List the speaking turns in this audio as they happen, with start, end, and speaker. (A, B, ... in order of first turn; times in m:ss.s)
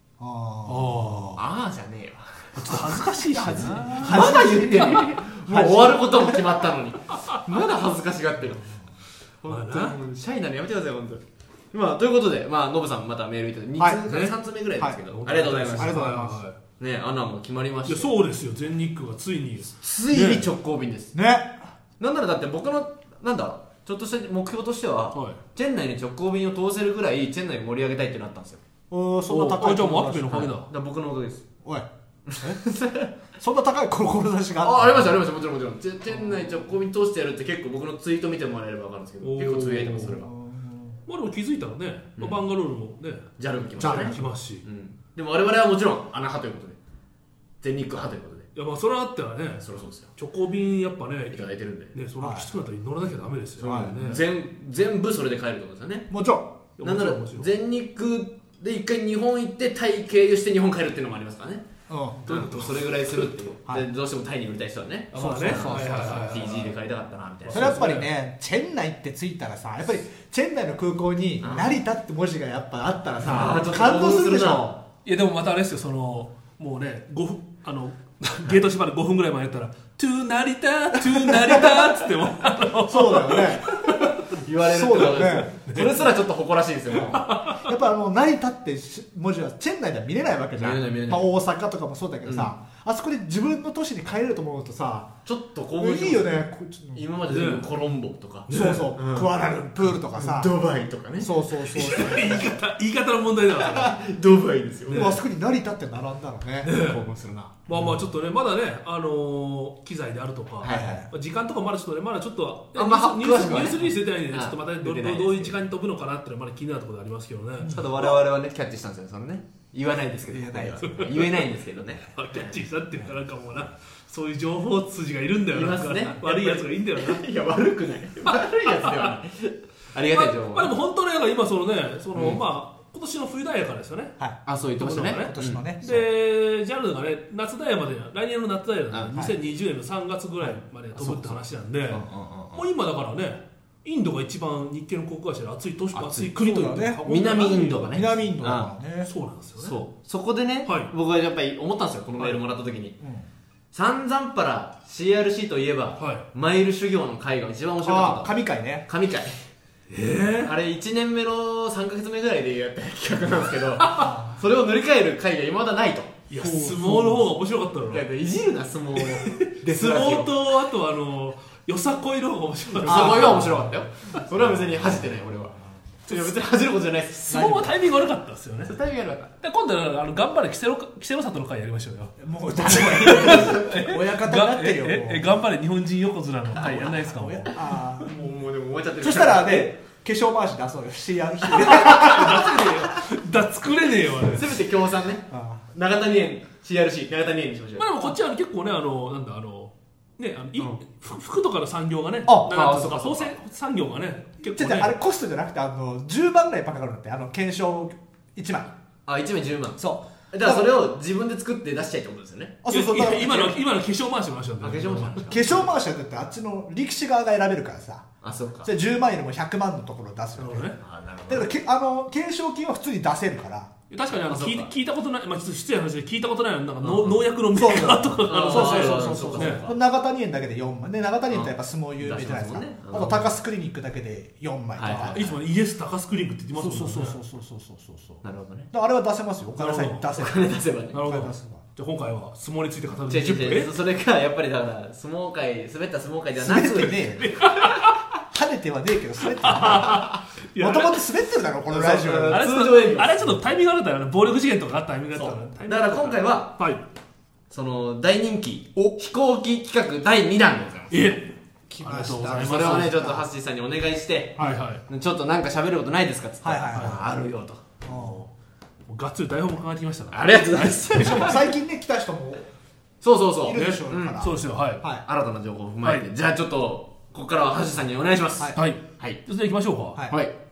0:00.2-0:01.4 A
0:00.7-0:01.4 B
0:01.4-0:08.7 C
0:02.5-0:05.0 B
0:03.4-0:06.5 A
0:07.1-0:07.4 B
0:09.4-0:16.2 C
0:09.5-0:10.0 B
0:13.8-0:14.0 A
0:14.1-0:14.4 B
0:14.8-0:15.0 A
0:15.1-0:16.6 B
0:15.7-0:16.4 A
0:16.8-0:18.2 C
0:17.8-0:20.4 B
0:19.8-0:20.4 A
0:20.0-0:21.2 C
0:21.1-0:21.7 A
0:22.0-0:28.6 C
0:25.1-0:25.4 B
0:28.9-0:30.5 A
0:29.3-0:30.7 B
0:30.7-0:31.4 C
0:32.3-0:33.1 C
0:33.3-0:35.2 A
0:34.6-0:40.3 C
0:39.2-0:40.2 B
0:40.1-0:41.0 A
0:41.1-0:44.6 B
0:42.2-0:42.4 C
0:43.4-0:46.8 C
0:43.8-0:44.3 A
0:47.6-0:48.5 C
0:48.6-0:54.2 B
0:49.6-0:50.1 C
0:51.3-0:52.0 C
0:52.2-0:52.5 A
0:53.6-0:56.1 C
0:53.6-0:54.0 A
0:56.1-0:56.5 A
0:56.8-0:57.5 B
0:56.8-1:01.6 C
1:01.9-1:02.2 A
1:02.2-1:03.3 B
1:02.3-1:07.8 C
1:05.1-1:06.7 B
1:05.2-1:06.7 A
1:07.4-1:08.1 B
1:07.5-1:14.8 A
1:11.4-1:11.8 C
1:13.2-1:14.8 C
1:15.0-1:24.3 B
1:21.1-1:21.9 A
1:22.9-1:23.9 A
1:24.3-1:27.2 C
1:24.6-1:25.6 A
1:24.9-1:26.1 B
1:26.9-1:27.7 B
1:27.4-1:35.1 A
1:30.6-1:31.3 C
1:32.2-1:32.6 C
1:35.2-1:39.3 C
1:35.8-1:37.1 A
1:37.3-1:37.7 B
1:38.5-1:38.9 B
1:38.5-1:40.5 A
1:39.8-1:42.2 C
1:41.2-1:42.6 A
1:41.7-1:44.0 B
1:43.4-1:45.2 C
1:44.9-1:45.2 B
1:44.9-1:46.7 A
1:46.6-1:47.0 B
1:46.8-1:47.7 C
1:47.7-1:57.8 B
1:47.7-1:48.0 A
1:50.6-1:51.1 C
1:50.6-1:51.1 A
1:52.8-1:55.7 C
1:57.6-1:58.2 A
1:57.7-2:02.6 C
2:00.3-2:01.2 A
2:00.8-2:07.2 B
2:05.5-2:10.8 C
2:08.2-2:09.1 B
2:10.1-2:14.2 B
2:12.1-2:12.4 C
2:14.4-2:16.0 C
2:14.8-2:28.0 B
2:15.2-2:16.0 A
2:18.9-2:19.2 C
2:20.4-2:21.4 C
2:21.9-2:22.7 C
2:25.9-2:26.4 C
2:26.4-2:27.0 A
2:27.0-2:28.7 C
2:27.8-2:29.1 A
2:29.0-2:29.8 B
2:29.6-2:33.0 C
2:30.6-2:30.9 B
2:33.0-2:33.3 A
2:33.7-2:39.3 C
2:36.0-2:36.3 B
2:37.8-2:38.9 A
2:39.9-2:40.5 B
2:40.4-2:46.1 C
2:43.9-2:44.4 A
2:46.3-2:48.0 B
2:46.4-2:47.3 A
2:47.9-2:50.3 C
2:49.0-2:53.4 B
2:49.6-2:50.2 A
2:52.8-2:57.3 C
2:52.8-2:53.8 A
2:57.1-2:58.8 B
2:57.3-2:57.8 A
2:58.6-2:59.3 C
2:59.4-3:07.6 B
3:02.2-3:05.3 A
3:02.8-3:03.5 C
3:06.5-3:07.0 C
3:06.6-3:08.2 A
3:08.0-3:09.7 C
3:09.0-3:12.8 A
3:11.5-3:12.2 C
3:11.6-3:14.6 B
3:14.3-3:18.1 C
3:15.3-3:15.7 A
3:17.8-3:24.9 B
3:22.2-3:22.6 A
3:22.5-3:23.4 C
3:24.5-3:28.7 A
3:29.1-3:32.6 C
3:29.8-3:30.7 A
3:32.6-3:33.6 A
3:32.7-3:35.7 B
3:34.6-3:35.6 C
3:35.3-3:38.1 A
3:38.2-3:38.7 C
3:38.6-3:40.8 A
3:40.4-3:40.8 B
3:40.8-3:41.5 C
3:41.3-3:43.7 A
3:43.9-3:49.7 B
3:44.1-3:44.7 C
3:46.8-3:47.3 C
3:47.5-3:55.4 A
3:48.2-3:49.8 C
3:51.3-3:53.3 C
3:54.8-3:55.3 C
3:54.9-3:57.2 B
3:56.6-4:01.6 A
3:58.2-3:58.7 C
3:59.6-4:00.1 B
4:00.2-4:01.0 C
4:00.9-4:03.8 B
4:03.1-4:07.1 C
4:06.4-4:07.4 A
4:07.2-4:07.9 B
4:08.3-4:12.4 A
4:09.2-4:11.1 B
4:11.7-4:13.4 C
4:12.3-4:16.9 B
4:15.1-4:16.6 C
4:17.5-4:21.2 C
4:20.9-4:23.0 B
4:21.7-4:23.3 A
4:21.9-4:27.7 C
4:24.4-4:24.6 A
4:24.4-4:24.8 B
4:26.4-4:27.1 A
4:26.7-4:27.1 B
4:27.8-4:28.2 A
4:27.9-4:28.3 B
4:28.9-4:31.3 B
4:30.1-4:31.5 C
4:30.9-4:32.5 A
4:33.0-4:34.3 C
4:33.4-4:35.0 A
4:33.6-4:34.8 B
4:34.8-4:39.2 C
4:38.4-4:38.6 A
4:38.6-4:40.1 B
4:40.1-4:40.4 C